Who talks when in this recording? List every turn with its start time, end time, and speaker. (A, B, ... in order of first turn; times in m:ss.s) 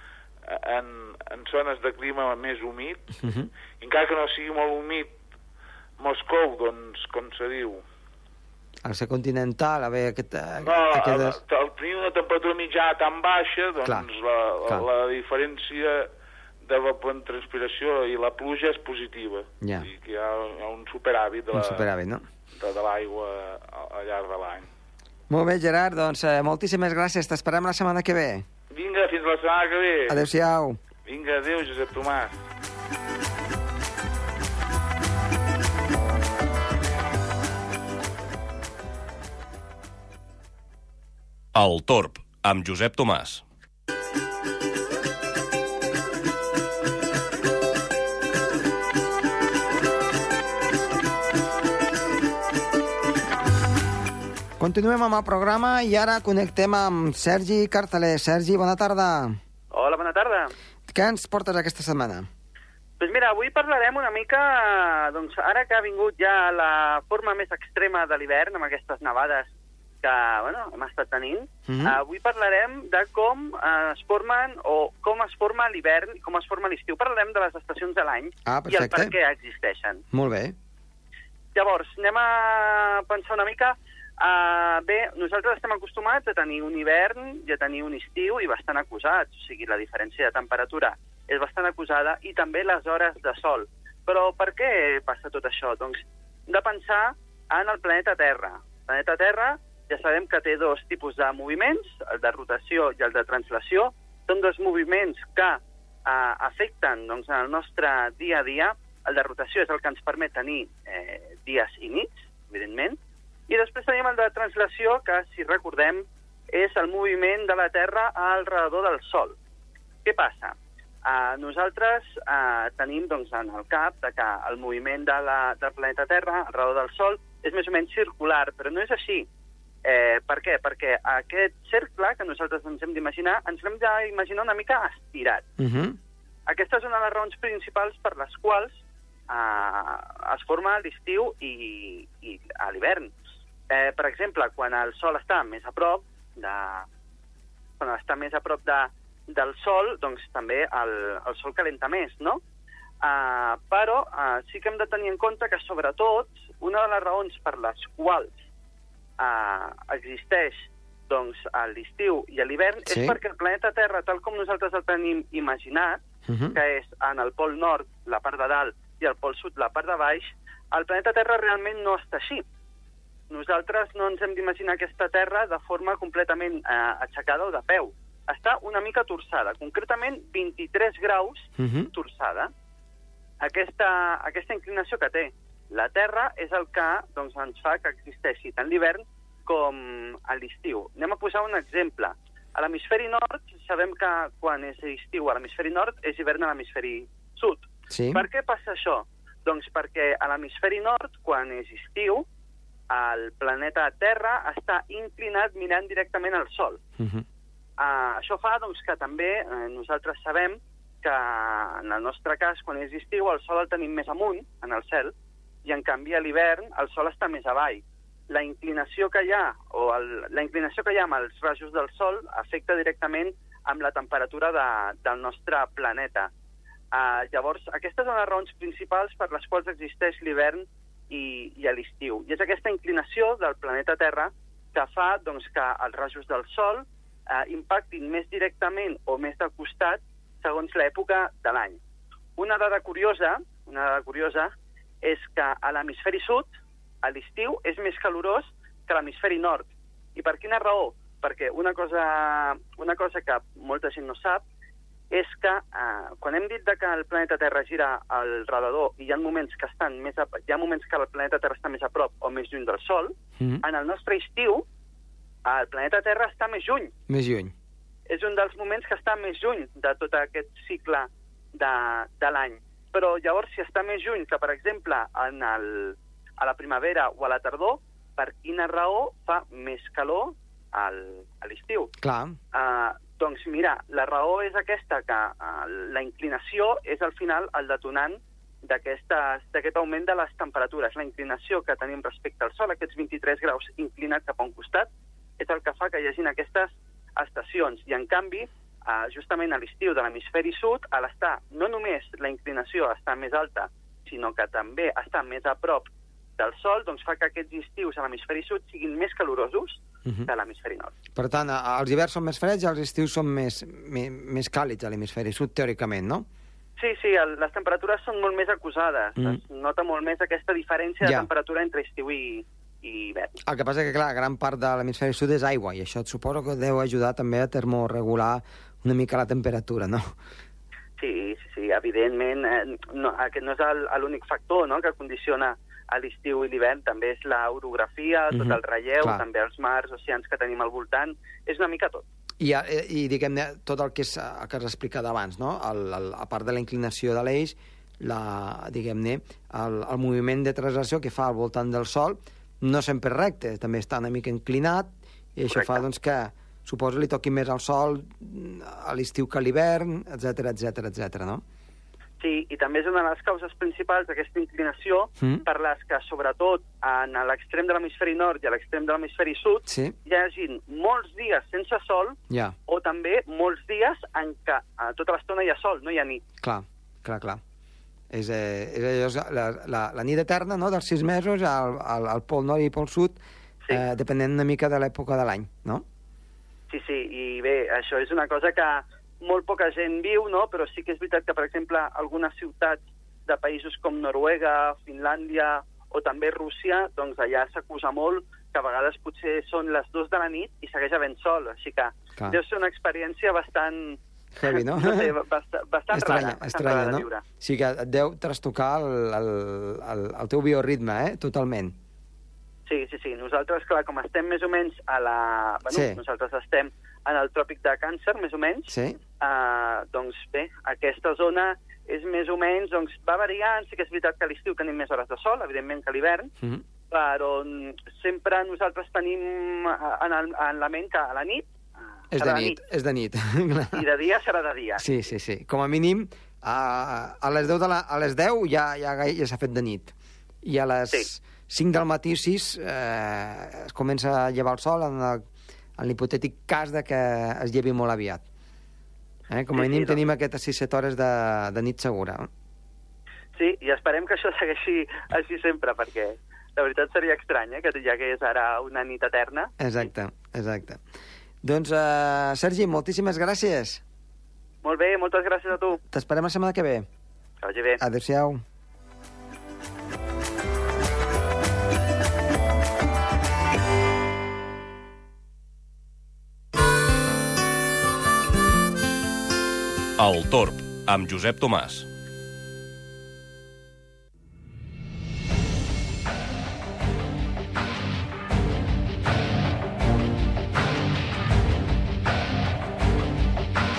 0:00.5-0:03.2 A
0:03.2-0:03.5 B
0:03.8-0:05.1 A
0:06.0-0:07.8 A
0:08.8-0:11.4 B
0:10.6-0:16.1 A
0:16.6-0:21.9 A
0:19.6-0:19.9 B
0:21.5-0:22.2 B
0:22.6-0:24.7 A
0:25.3-0:28.5 B
0:28.7-0:30.3 A
0:30.1-0:30.8 B
0:31.0-0:32.4 A
0:41.6-0:43.4 C
0:54.6-0:59.4 B
0:59.7-1:00.5 D
1:00.9-1:02.3 B
1:03.0-1:09.5 D
1:10.0-1:20.0 D
1:11.7-1:12.0 B
1:18.5-1:19.2 B
1:20.1-1:20.6 B
1:21.6-1:59.4 D
2:00.0-2:09.3 D
2:09.8-2:15.4 D
2:15.6-2:16.0 B
2:16.5-2:23.1 D
2:23.7-2:26.9 D
2:27.8-2:32.4 D
2:33.0-2:38.4 D
2:39.2-2:46.0 D
2:42.9-2:43.2 B
2:46.3-2:46.6 B
2:46.5-2:52.5 D
2:53.3-3:02.5 D
3:01.6-3:01.9 B
3:03.4-3:22.2 D
3:17.9-3:18.2 B
3:22.9-3:26.8 D
3:27.0-3:27.2 B
3:27.8-3:35.1 D
3:35.6-3:46.3 D
3:46.9-4:01.8 D
4:02.4-4:06.5 D
4:07.0-4:14.4 D
4:15.1-4:24.7 D
4:25.5-4:26.9 D
4:27.1-4:27.5 B
4:28.1-4:41.9 D
4:42.0-4:42.4 B
4:42.5-4:54.9 D
4:55.4-5:11.0 D
5:11.2-5:16.3 B
5:16.8-5:23.4 D
5:21.0-5:21.3 B
5:23.4-5:30.2 B
5:31.0-5:42.0 D
5:38.3-5:39.2 B
5:42.4-6:01.4 B
5:55.5-5:55.8 D
6:02.2-6:16.2 D
6:09.7-6:10.0 B
6:12.3-6:12.6 B
6:16.4-6:17.4 B
6:18.1-6:23.2 B
6:23.7-6:25.8 B
6:26.7-6:47.2 D
6:44.4-6:45.1 B
6:45.9-6:51.8 B
6:52.7-7:06.3 D
6:55.7-6:56.0 B
6:58.7-6:59.0 B
7:06.9-7:11.5 D
7:12.1-7:13.9 B
7:12.1-7:12.6 D
7:13.7-7:14.8 D
7:14.8-7:25.2 B
7:25.8-7:28.2 B
7:29.3-7:32.3 B
7:29.5-7:30.0 D
7:33.4-7:39.5 D
7:39.6-7:40.8 B
7:41.4-7:43.8 B
7:44.6-7:45.8 D
7:45.9-7:46.9 B
7:47.4-7:47.8 D
7:47.8-7:48.4 B
8:00.0-8:01.9 C